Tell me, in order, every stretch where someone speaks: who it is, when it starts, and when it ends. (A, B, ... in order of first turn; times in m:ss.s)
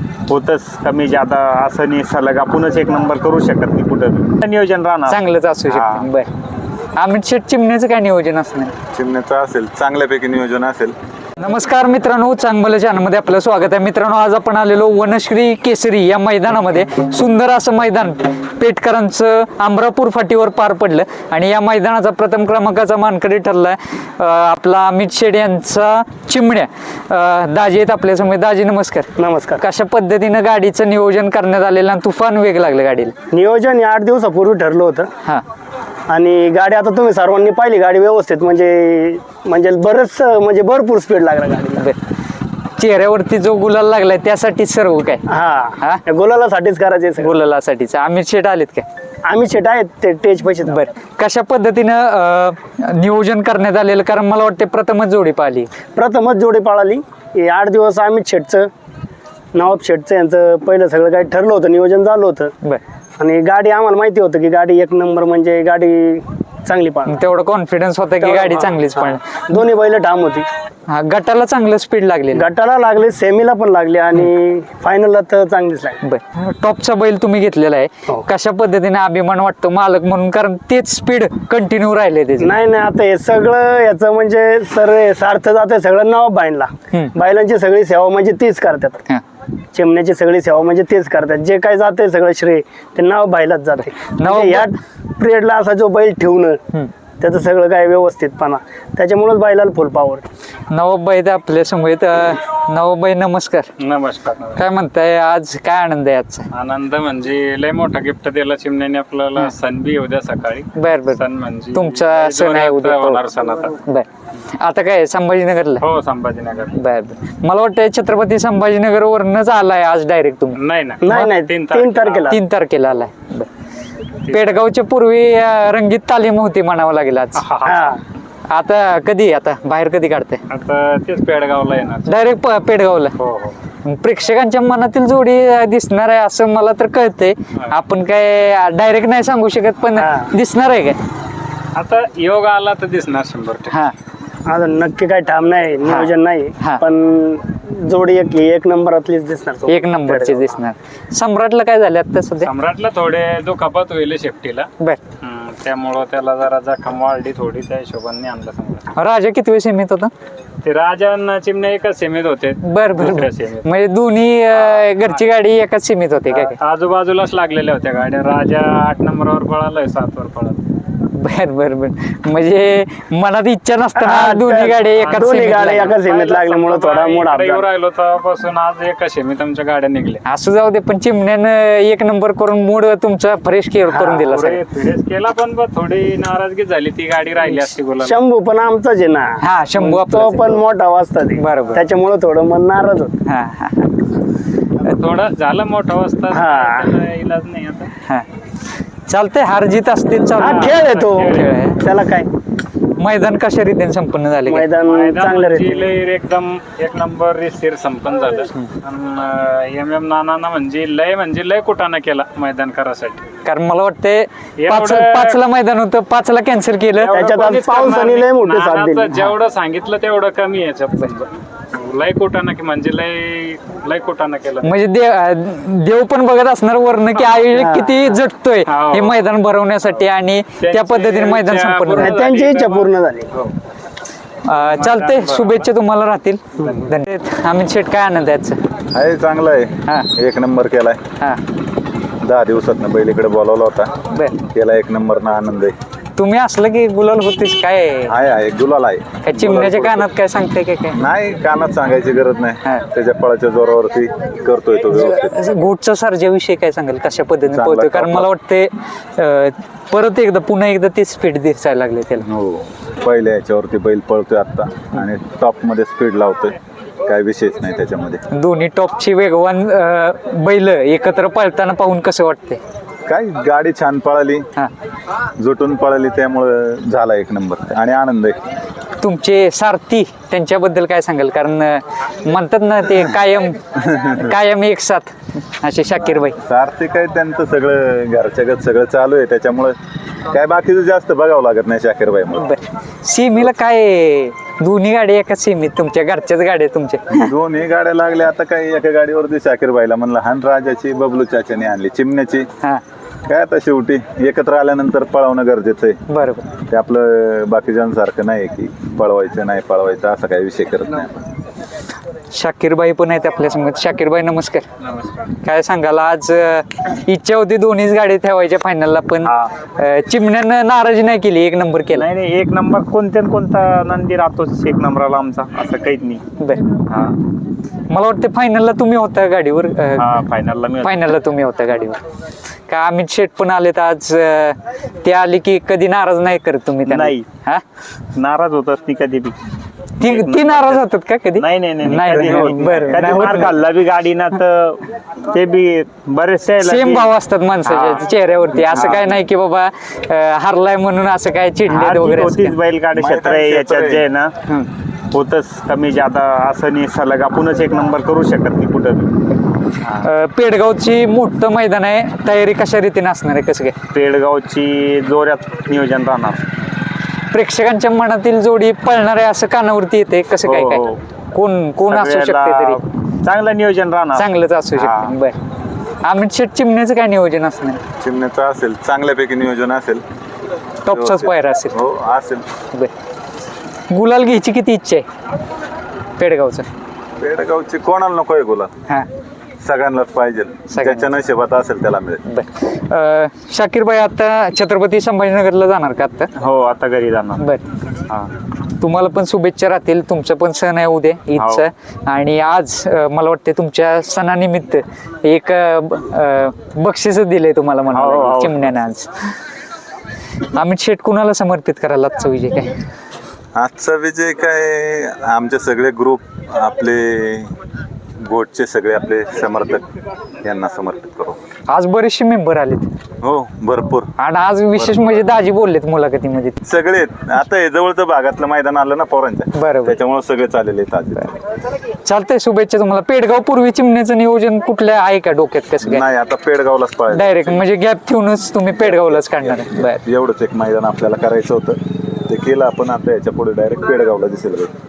0:00.3-0:06.1 A
0:05.1-0:06.3 B
0:07.0-0:08.7 B
0:08.9-0:11.0 C
0:11.4-0:33.1 B
0:29.2-0:29.6 D
0:33.3-0:35.1 D
0:36.1-0:41.9 D
0:42.8-0:45.3 B
0:45.3-0:47.4 D
0:47.2-0:48.8 B
0:49.2-0:50.9 D
0:50.7-0:55.7 B
0:56.0-0:58.7 D
0:59.5-1:02.5 D
1:03.2-1:07.2 D
1:07.1-1:09.4 B
1:08.2-1:10.4 D
1:10.9-1:12.5 B
1:12.3-1:16.0 D
1:16.0-1:22.5 B
1:22.4-1:29.0 D
1:29.7-1:36.6 D
1:34.0-1:34.7 B
1:37.2-1:40.2 D
1:40.7-1:43.7 B
1:43.8-1:44.6 E
1:44.6-1:46.5 B
1:46.5-1:53.8 E
1:50.7-1:51.2 B
1:51.7-1:53.2 B
1:53.8-1:55.8 B
1:55.8-1:56.8 E
1:56.7-2:01.3 B
2:00.6-2:02.4 E
2:01.0-2:02.4 D
2:02.3-2:03.5 B
2:04.3-2:07.4 B
2:07.4-2:08.0 E
2:07.6-2:08.0 D
2:08.5-2:10.4 B
2:10.5-2:12.2 E
2:12.1-2:13.2 B
2:13.2-2:13.6 E
2:13.8-2:21.0 B
2:19.9-2:20.3 D
2:21.8-2:23.8 E
2:24.5-2:30.6 D
2:25.8-2:26.8 B
2:29.7-2:32.5 B
2:32.4-2:34.7 E
2:35.2-2:38.9 E
2:38.9-2:40.1 B
2:40.6-2:43.7 E
2:42.6-2:46.6 B
2:44.5-2:45.2 E
2:46.3-2:50.6 E
2:51.1-2:55.9 B
2:54.0-2:57.7 D
2:55.0-3:00.2 E
3:00.2-3:04.6 B
3:03.9-3:04.3 D
3:04.2-3:08.2 E
3:07.4-3:13.1 D
3:09.4-3:10.6 B
3:11.3-3:11.8 B
3:13.2-3:13.9 B
3:14.8-3:17.9 E
3:16.3-3:16.9 D
3:19.1-3:21.8 B
3:20.4-3:22.3 D
3:20.4-3:21.6 E
3:23.0-3:24.7 B
3:24.4-3:25.9 D
3:24.8-3:33.2 E
3:33.4-3:37.2 B
3:34.6-3:35.4 E
3:37.0-3:44.8 E
3:37.1-3:39.2 D
3:44.6-3:52.2 B
3:47.5-3:48.1 D
3:48.7-3:49.2 E
3:50.6-3:53.5 E
3:52.0-3:53.3 D
3:54.4-3:58.6 B
3:54.5-3:55.7 E
3:56.6-3:56.9 E
3:58.9-4:01.0 C
4:02.2-4:05.8 C
4:04.1-4:04.4 B
4:06.2-4:08.2 B
4:08.1-4:10.1 C
4:09.2-4:11.0 B
4:10.9-4:15.4 C
4:14.9-4:22.3 B
4:17.5-4:18.3 C
4:22.2-4:28.2 C
4:28.3-4:32.6 B
4:33.1-4:34.5 C
4:35.4-4:38.4 C
4:39.0-4:46.4 B
4:43.9-4:44.3 C
4:46.4-4:49.8 C
4:50.3-4:52.6 C
4:52.4-4:57.2 B
4:57.1-5:02.5 C
5:03.3-5:06.0 C
5:06.1-5:06.5 B
5:06.7-5:11.1 C
5:12.3-5:14.7 B
5:14.9-5:15.2 E
5:15.4-5:22.1 B
5:22.0-5:23.9 A
5:22.1-5:26.2 E
5:25.3-5:26.2 A
5:27.9-5:30.1 B
5:30.0-5:31.1 E
5:30.8-5:32.0 B
5:32.7-5:37.6 B
5:36.9-5:37.2 A
5:38.2-5:39.3 A
5:38.4-5:38.7 E
5:40.0-5:43.6 B
5:40.2-5:40.7 A
5:41.4-5:47.1 A
5:41.8-5:43.7 E
5:46.4-5:47.0 E
5:46.6-5:52.6 B
5:48.7-5:49.2 A
5:51.7-5:52.4 E
5:52.0-5:54.3 A
5:52.9-5:53.8 E
5:52.9-5:54.1 C
5:55.1-5:59.1 A
5:55.5-5:57.4 E
5:58.0-5:58.9 E
5:59.9-6:03.8 B
6:03.9-6:06.4 A
6:04.3-6:04.9 E
6:07.3-6:12.8 B
6:10.5-6:10.8 A
6:11.9-6:12.7 E
6:12.0-6:12.6 A
6:13.2-6:14.2 A
6:13.4-6:13.8 E
6:14.1-6:15.4 B
6:16.0-6:17.8 B
6:18.0-6:20.0 C
6:20.8-6:21.8 B
6:20.9-6:22.4 C
6:23.9-6:25.1 B
6:26.2-6:26.7 B
6:27.2-6:28.7 C
6:29.6-6:32.2 C
6:30.7-6:31.1 B
6:32.2-6:36.3 B
6:36.4-6:37.4 A
6:38.8-6:49.3 B
6:41.4-6:41.6 A
6:47.9-6:48.6 A
6:50.4-6:52.7 B
6:53.6-6:57.6 C
6:58.2-6:59.8 C
7:00.4-7:01.4 C
7:01.7-7:02.9 B
7:03.2-7:04.1 C
7:04.2-7:06.6 B
7:06.6-7:11.4 C
7:09.6-7:09.9 B
7:12.0-7:16.0 B
7:15.8-7:17.7 C
7:17.1-7:20.0 B
7:18.8-7:24.7 C